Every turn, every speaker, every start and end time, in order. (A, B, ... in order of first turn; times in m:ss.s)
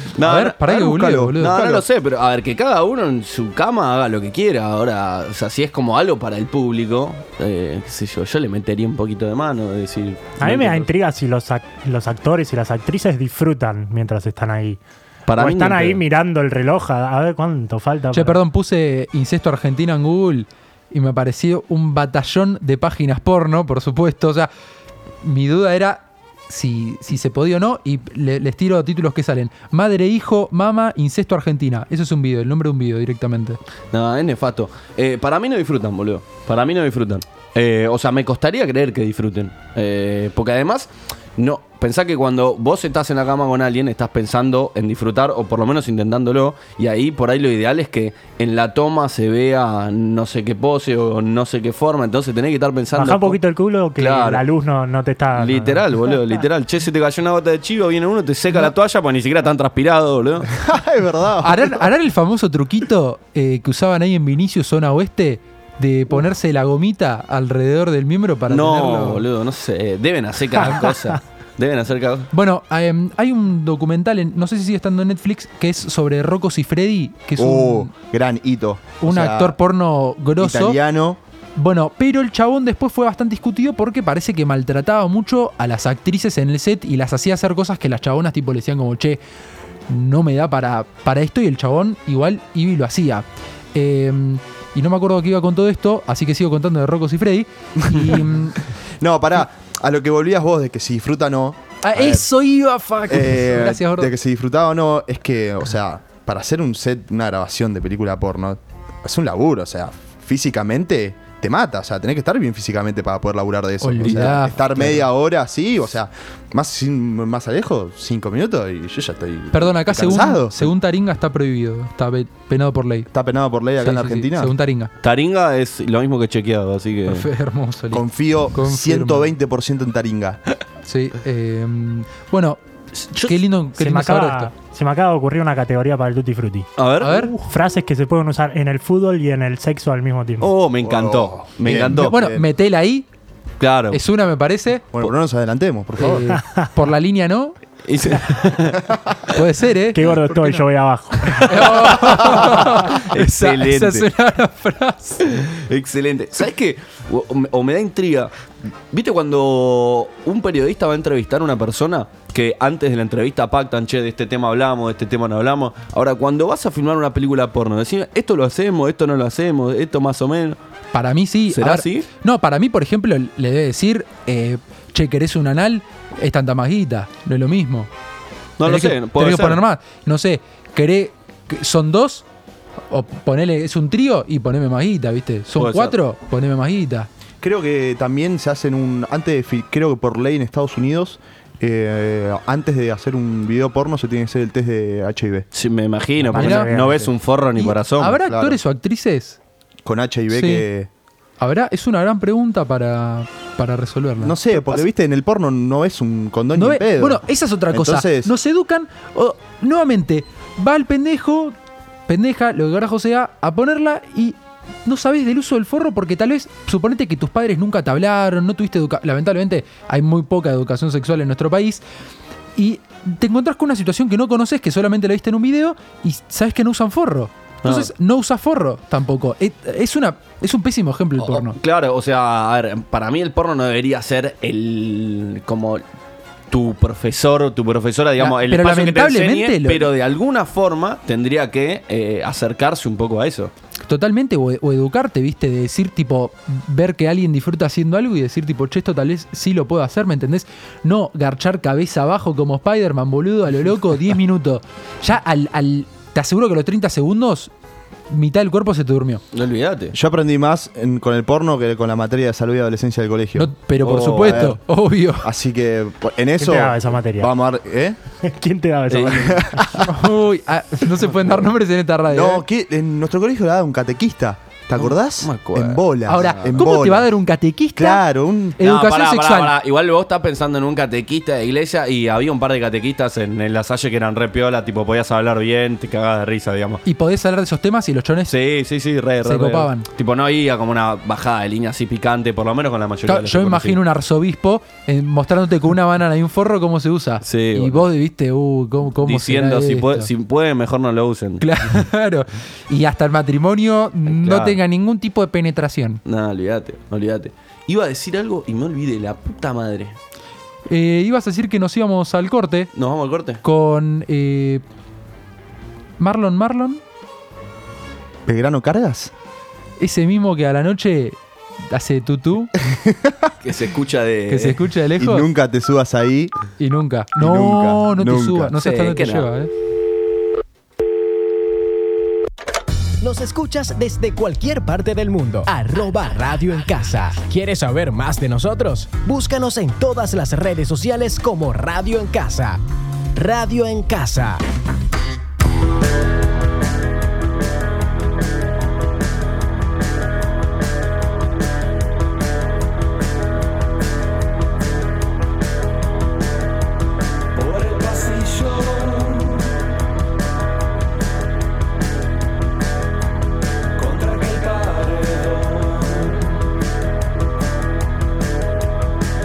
0:00.2-0:00.6 A
0:00.2-0:01.6 B
0:00.6-0:01.8 C
0:01.4-0:10.9 A
0:10.4-0:14.8 D
0:15.3-0:16.0 A
0:15.3-0:18.4 D
0:18.1-0:24.5 B
0:25.2-0:33.6 B
0:33.9-0:53.4 A
0:52.9-0:55.8 D
0:54.0-0:54.4 A
0:55.4-1:00.5 A
1:00.5-1:01.9 C
1:01.4-1:09.2 B
1:08.5-1:12.3 A
1:12.3-1:17.9 B
1:17.4-1:19.6 C
1:19.0-1:20.8 B
1:20.4-1:21.2 C
1:21.6-1:29.2 B
1:29.9-1:38.6 B
1:37.9-1:38.2 C
1:39.0-1:42.3 C
1:41.8-1:44.1 B
1:43.1-2:00.7 C
1:53.8-1:55.0 B
1:59.5-2:03.1 B
2:03.1-2:04.5 C
2:03.8-2:04.9 B
2:05.0-2:07.3 A
2:07.1-2:09.3 B
2:07.9-2:10.4 C
2:10.8-2:12.6 B
2:13.0-2:13.4 A
2:13.1-2:14.5 B
2:13.8-2:20.5 D
2:16.8-2:17.1 A
2:17.0-2:17.3 B
2:20.4-2:22.1 A
2:20.8-2:22.5 C
2:21.7-2:23.1 B
2:23.6-2:24.0 A
2:23.9-2:24.9 B
2:24.9-2:26.4 C
2:26.0-2:27.6 B
2:27.9-2:28.8 A
2:29.3-2:30.6 B
2:29.9-2:31.9 D
2:31.4-2:35.2 B
2:32.0-2:34.1 A
2:35.3-2:38.3 A
2:38.9-2:50.6 A
2:50.9-2:57.9 B
2:51.5-2:52.1 A
2:58.6-2:59.6 A
2:58.6-3:02.2 B
3:02.9-3:07.1 B
3:05.6-3:05.9 A
3:07.4-3:15.4 C
3:15.5-3:18.2 A
3:16.3-3:17.0 D
3:16.3-3:16.7 B
3:17.6-3:19.4 B
3:18.2-3:18.6 C
3:19.8-3:20.9 C
3:20.3-3:20.6 B
3:21.4-3:24.8 B
3:24.2-3:28.3 C
3:26.5-3:31.5 B
3:32.1-3:41.8 B
3:42.6-3:51.6 B
3:47.6-3:47.9 A
3:51.2-3:55.8 A
3:56.5-4:03.5 A
3:58.2-3:59.9 B
4:03.9-4:17.5 B
4:18.1-4:19.2 B
4:19.3-4:19.9 A
4:19.9-4:23.5 C
4:23.3-4:25.3 B
4:23.8-4:24.5 A
4:24.1-4:24.6 C
4:25.2-4:28.0 C
4:26.4-4:27.3 D
4:28.2-4:29.6 D
4:28.9-4:29.7 A
4:29.2-4:29.9 C
4:29.8-4:32.4 B
4:32.1-4:37.1 C
4:34.8-4:36.6 A
4:36.0-4:38.0 B
4:37.8-4:38.6 C
4:38.6-4:39.5 B
4:38.6-4:46.8 A
4:46.8-4:48.3 B
4:48.3-4:53.8 A
4:49.2-4:49.8 B
4:53.1-5:00.1 B
4:57.2-4:57.9 A
4:59.0-5:01.4 A
5:01.4-5:06.0 B
5:04.1-5:04.6 A
5:06.0-5:10.0 A
5:10.7-5:12.7 B
5:12.7-5:13.4 A
5:13.4-5:14.6 B
5:16.0-5:16.8 B
5:18.2-5:19.1 C
5:19.8-5:21.2 B
5:21.7-5:22.5 B
5:22.6-5:23.3 C
5:23.4-5:24.6 A
5:24.3-5:25.3 B
5:25.0-5:26.3 C
5:26.6-5:29.5 B
5:27.2-5:28.5 C
5:28.6-5:29.3 A
5:33.0-5:42.6 E
5:43.1-5:44.4 E
5:57.4-5:59.4 F
6:03.8-6:06.2 F